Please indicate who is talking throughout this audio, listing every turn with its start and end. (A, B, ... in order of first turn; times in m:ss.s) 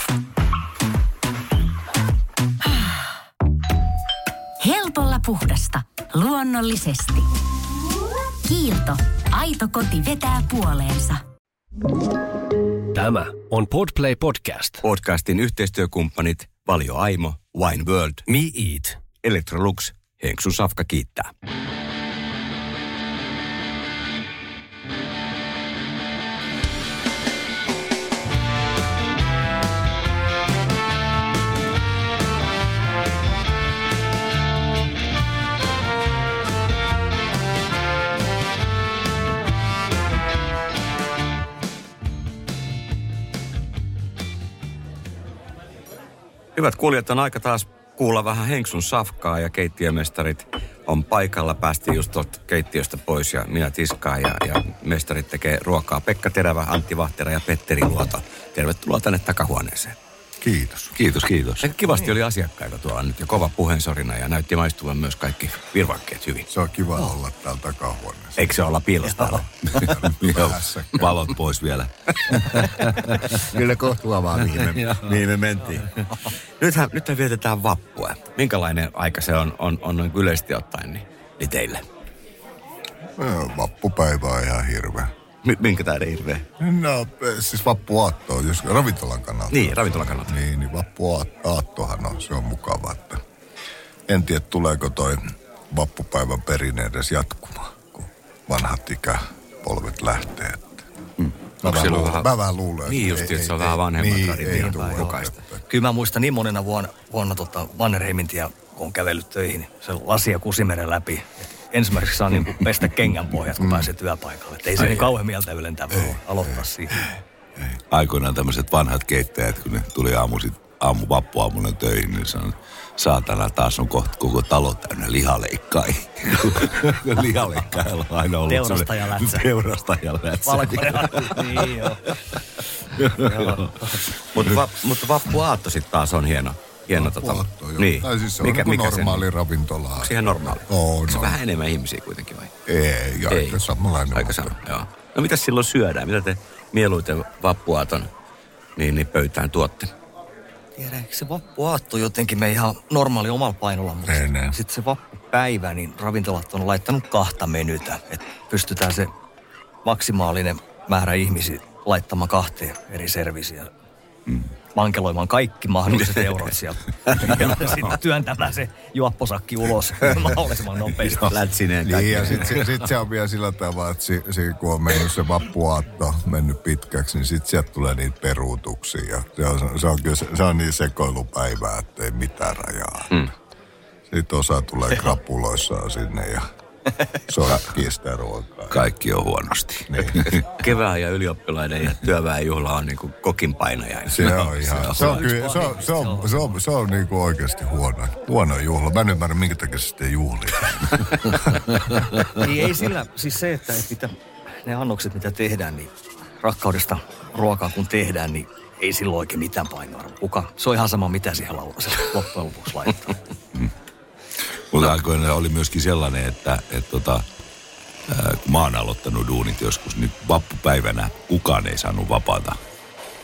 0:02.6-0:03.1 A
0:04.6-0:07.3 A
0:08.4-0:11.2 A
0:12.9-0:14.8 B
0:14.8-0:18.3 C
0:18.3-0:19.0 B
0:19.2-0:21.3 C
0:46.6-1:00.0 C
1:00.4-1:01.0 D
1:01.0-1:01.7 E
1:01.6-1:06.5 C
1:06.5-1:08.5 D
1:08.4-1:09.9 C
1:09.8-1:13.5 E
1:10.1-1:11.1 D
1:13.5-1:21.8 C
1:23.2-1:25.1 D
1:25.4-1:26.5 C
1:26.6-1:33.2 D
1:29.5-1:30.4 C
1:34.1-1:40.9 D
1:41.3-1:42.3 C
1:41.6-1:45.6 D
1:42.9-1:45.4 C
1:45.7-1:57.1 F
1:53.6-1:53.9 D
1:54.8-1:55.1 C
1:57.9-2:11.8 E
2:08.5-2:09.4 F
2:10.5-2:12.1 F
2:13.0-2:13.7 E
2:13.2-2:14.0 F
2:14.3-2:19.3 C
2:16.9-2:21.4 D
2:20.0-2:22.5 C
2:22.7-2:24.6 D
2:23.3-2:28.1 C
2:28.8-2:29.9 C
2:30.8-2:39.1 F
2:34.1-2:34.6 D
2:39.8-2:43.7 F
2:44.8-2:51.4 F
2:51.2-2:52.7 C
2:51.8-3:03.3 D
3:04.1-3:06.4 D
3:07.3-3:08.8 D
3:08.7-3:10.4 E
3:09.9-3:10.3 D
3:10.3-3:15.3 C
3:14.1-3:21.6 D
3:15.0-3:16.4 F
3:22.3-3:24.1 F
3:24.6-3:33.2 F
3:34.7-3:37.2 E
3:38.1-3:42.6 E